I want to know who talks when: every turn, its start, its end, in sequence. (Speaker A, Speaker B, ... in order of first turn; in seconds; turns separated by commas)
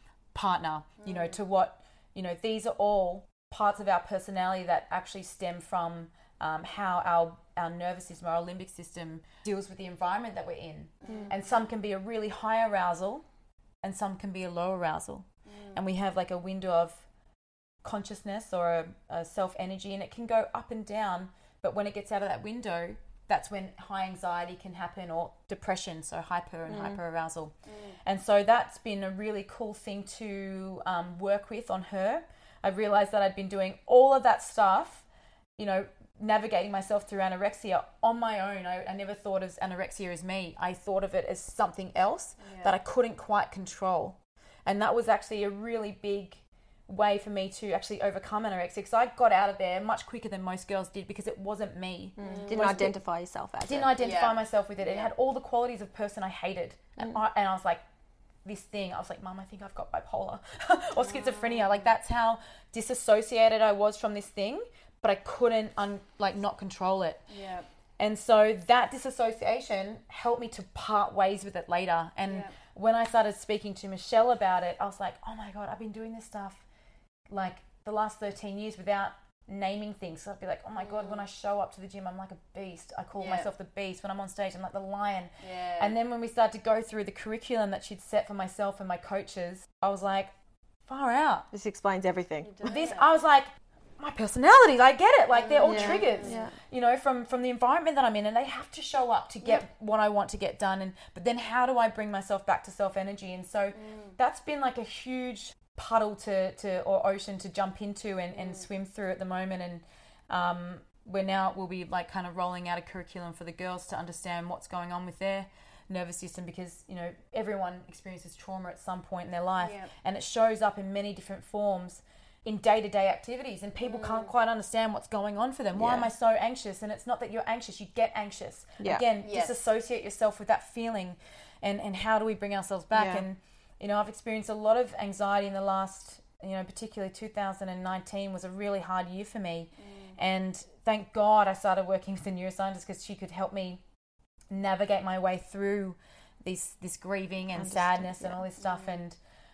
Speaker A: 0.3-13.2, Speaker B: 1.0-1.4, Speaker B: 11.0-11.6, Speaker C: 11.1-11.3, Speaker A: 13.8-17.1, Speaker B: 15.5-15.8, Speaker A: 17.8-35.1, Speaker C: 26.7-27.0, Speaker B: 27.7-28.0, Speaker A: 35.6-53.0, Speaker B: 42.4-42.7, Speaker C: 52.2-53.9, Speaker B: 52.2-52.9, Speaker A: 53.7-57.8, Speaker B: 54.0-55.1, Speaker A: 58.5-67.2, Speaker B: 61.0-61.9, Speaker B: 67.3-67.7, Speaker A: 68.0-76.7, Speaker B: 72.3-72.5, Speaker A: 77.3-90.3, Speaker B: 80.8-81.2, Speaker B: 83.2-83.5, Speaker B: 85.4-85.9, Speaker A: 90.9-91.5, Speaker C: 91.5-92.7, Speaker B: 92.4-93.1, Speaker A: 92.7-143.8, Speaker B: 95.3-96.4, Speaker C: 95.6-96.6, Speaker B: 103.7-104.2, Speaker B: 108.3-108.7, Speaker B: 119.6-119.9, Speaker B: 123.8-124.3, Speaker C: 125.8-126.1, Speaker B: 129.2-129.7, Speaker C: 132.9-133.2, Speaker B: 139.8-140.2, Speaker A: 144.5-149.2, Speaker C: 147.6-148.4, Speaker B: 148.6-149.0